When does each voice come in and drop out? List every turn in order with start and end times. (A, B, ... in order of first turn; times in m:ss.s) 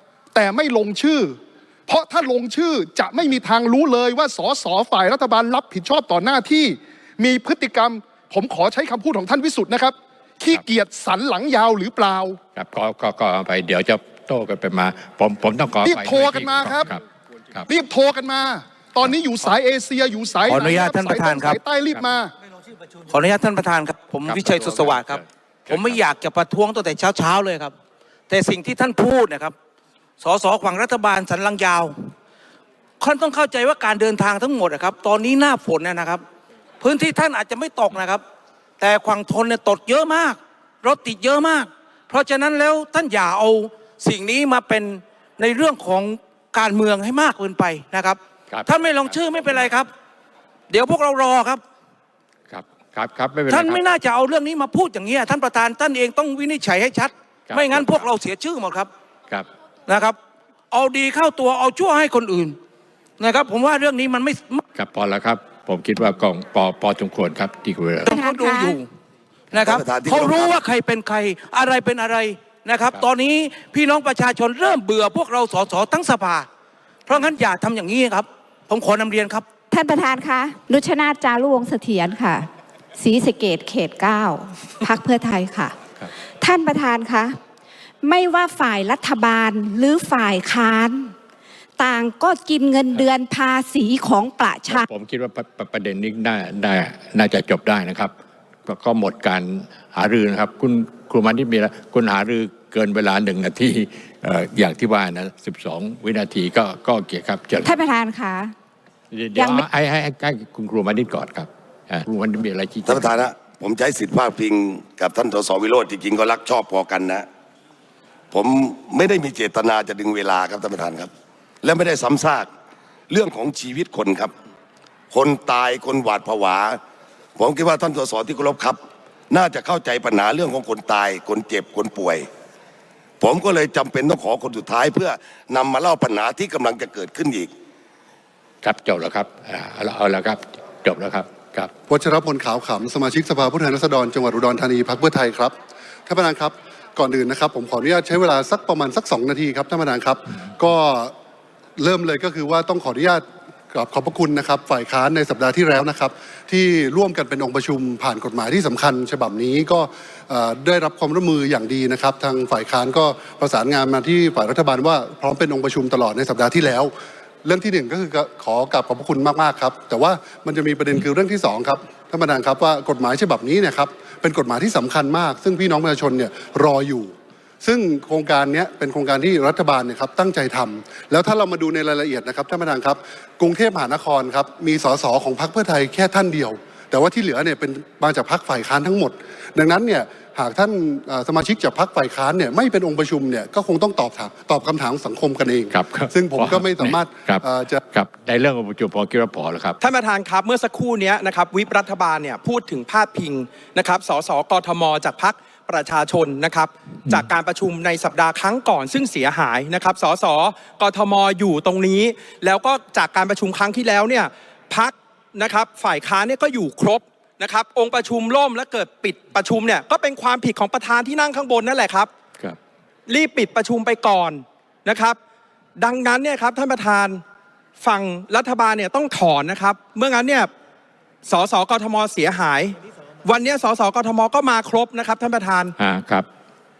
0:00.3-0:12.4 A
0:12.5-0:17.0 B
0:15.8-0:16.9 A
0:17.6-0:22.3 A
0:20.4-0:21.6 C
0:23.0-0:27.7 C
0:24.3-0:26.0 B
0:28.3-0:29.5 C
0:30.2-0:32.0 C
0:33.0-0:36.2 C
0:36.8-0:38.2 C
0:38.8-0:49.9 C
0:48.5-0:49.1 B
0:50.7-0:51.6 C
0:52.5-0:53.8 B
0:53.5-0:58.9 C
0:57.5-0:58.0 B
0:59.9-1:00.2 C
1:00.7-1:02.6 C
1:03.2-1:04.6 C
1:04.7-1:08.2 B
1:08.0-1:08.9 C
1:08.1-1:08.8 D
1:09.5-1:16.5 C
1:09.6-1:10.6 E
1:17.1-1:19.4 C
1:19.7-1:25.8 D
1:26.4-1:27.4 D
1:28.0-1:31.1 D
1:31.8-1:34.8 D
1:34.6-1:38.1 B
1:38.6-1:47.8 B
1:47.6-1:48.5 D
1:49.1-1:53.3 B
1:49.3-1:49.6 D
1:52.8-1:57.2 E
1:58.3-2:01.1 E
2:01.6-2:02.5 E
2:03.1-2:04.3 E
2:05.1-2:06.8 E
2:07.4-2:12.3 E
2:13.2-2:17.5 E
2:18.6-2:21.7 B
2:21.9-2:31.1 F
2:31.8-2:46.9 F
2:47.4-3:17.8 F
3:15.7-3:19.8 B
3:19.8-3:42.1 G
3:43.1-3:45.2 G
3:45.8-3:47.2 G
3:47.8-3:50.5 G
3:51.2-3:55.7 G
3:55.8-3:56.3 B